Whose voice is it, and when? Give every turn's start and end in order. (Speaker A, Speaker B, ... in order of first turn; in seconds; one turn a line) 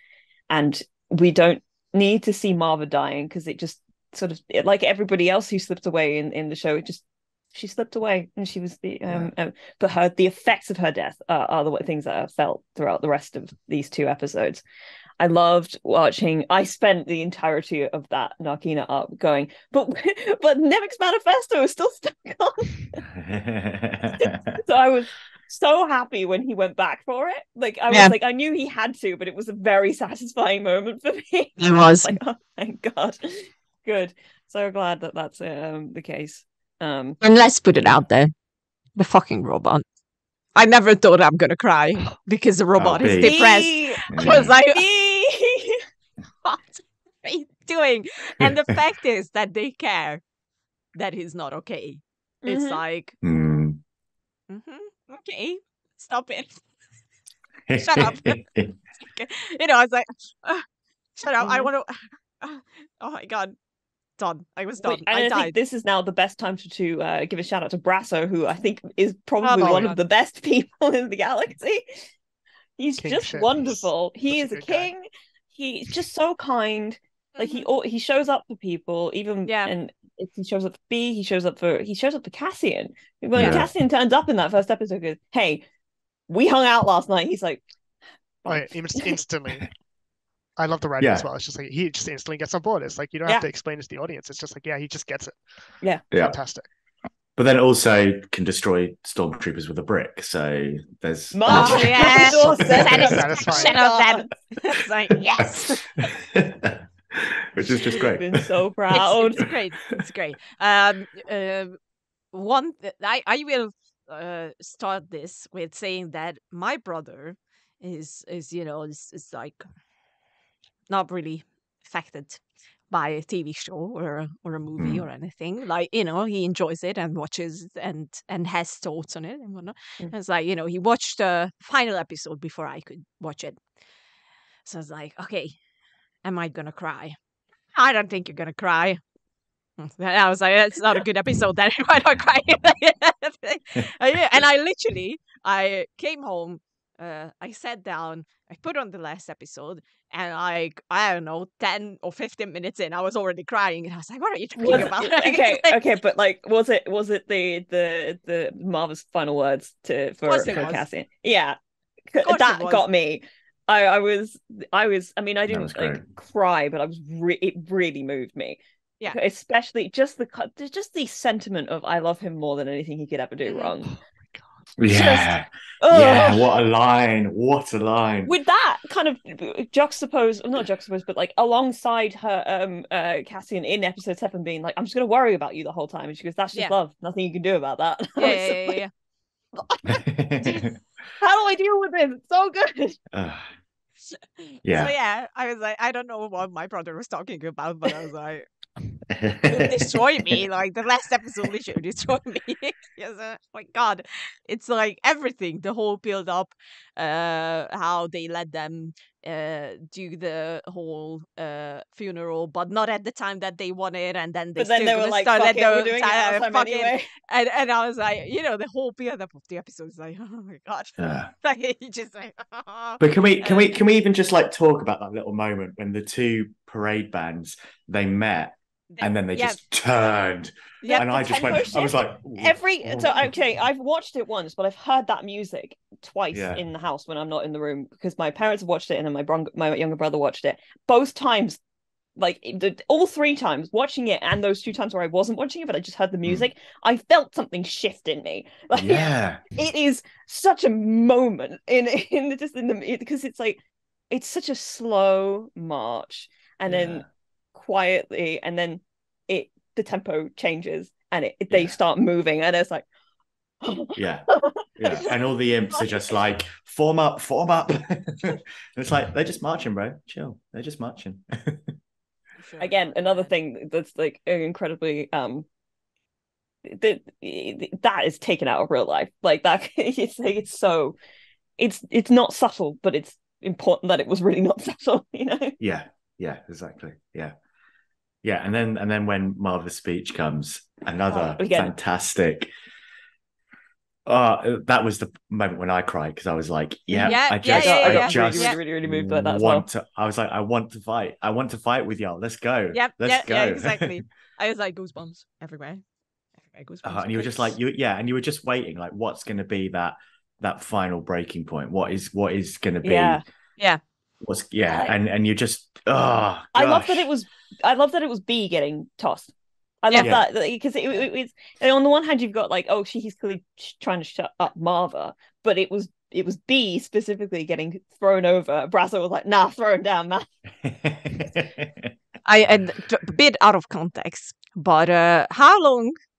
Speaker A: 0.5-14.6
Speaker A: 15.2-23.0
Speaker B: 23.1-24.6
Speaker A: 24.2-37.2
Speaker C: 31.6-32.1
Speaker C: 37.2-38.3
Speaker C: 39.0-39.8
Speaker C: 40.5-44.9
Speaker B: 42.8-43.4
Speaker A: 43.1-45.8
Speaker B: 44.1-44.6
Speaker C: 46.5-50.2
Speaker C: 51.0-53.1
Speaker A: 52.4-52.8
Speaker B: 53.2-53.8
Speaker C: 54.5-56.6
Speaker B: 57.7-58.8
Speaker C: 57.8-58.4
Speaker C: 59.1-60.6
Speaker C: 61.2-63.5
Speaker A: 61.4-61.7
Speaker C: 64.2-65.6
Speaker A: 64.8-72.1
Speaker C: 69.4-70.0
Speaker D: 69.6-69.9
Speaker A: 72.8-85.6
Speaker D: 73.0-74.9
Speaker C: 77.3-77.7
Speaker C: 79.5-79.7
Speaker B: 83.3-83.7
Speaker A: 86.3-87.6
Speaker A: 88.4-89.1
Speaker D: 88.5-89.7
Speaker D: 90.6-95.4
Speaker B: 91.0-91.3
Speaker B: 96.1-96.4
Speaker D: 96.1-96.7
Speaker B: 97.4-103.2
Speaker A: 101.3-104.3
Speaker C: 101.5-105.9
Speaker D: 102.9-103.8
Speaker B: 105.4-108.4
Speaker A: 108.2-109.5
Speaker C: 108.9-111.8
Speaker C: 112.3-119.6
Speaker C: 120.9-133.6
Speaker B: 124.8-125.0
Speaker C: 134.7-135.5
Speaker C: 136.2-137.2
Speaker C: 137.7-139.0
Speaker C: 139.8-155.8
Speaker A: 154.6-161.6
Speaker C: 160.2-160.8
Speaker A: 162.1-173.9
Speaker C: 162.2-162.8
Speaker B: 165.5-166.0
Speaker D: 173.9-174.5
Speaker B: 174.8-178.3
Speaker A: 174.9-176.5
Speaker A: 178.3-188.8
Speaker C: 188.2-188.9
Speaker A: 189.6-190.0
Speaker B: 189.9-190.8
Speaker A: 191.2-193.0
Speaker B: 193.1-193.5
Speaker C: 194.1-198.5
Speaker B: 194.7-194.9
Speaker B: 199.1-199.9
Speaker C: 199.4-223.7
Speaker A: 214.6-217.1
Speaker B: 221.0-221.3
Speaker B: 223.0-233.2
Speaker C: 228.9-229.6
Speaker C: 230.8-231.7
Speaker A: 230.8-232.0
Speaker C: 232.4-233.2
Speaker A: 232.8-241.6
Speaker B: 236.3-236.6
Speaker A: 242.2-253.6
Speaker B: 248.7-249.4
Speaker A: 254.1-262.8
Speaker B: 256.7-257.1
Speaker A: 263.6-265.1
Speaker B: 264.0-271.8
Speaker C: 272.4-273.3
Speaker A: 272.6-275.5
Speaker A: 276.6-281.0
Speaker A: 281.6-285.6
Speaker B: 285.6-287.3
Speaker B: 288.2-292.5
Speaker A: 291.1-291.7
Speaker B: 294.1-304.0
Speaker A: 296.9-299.7
Speaker C: 297.1-298.6
Speaker C: 302.7-305.8
Speaker C: 306.4-307.5
Speaker B: 306.8-313.2
Speaker A: 312.8-313.2
Speaker B: 314.2-317.1
Speaker A: 314.7-314.9
Speaker A: 316.5-319.3
Speaker A: 319.8-330.3
Speaker B: 320.0-320.3
Speaker B: 330.6-331.9
Speaker C: 332.2-335.9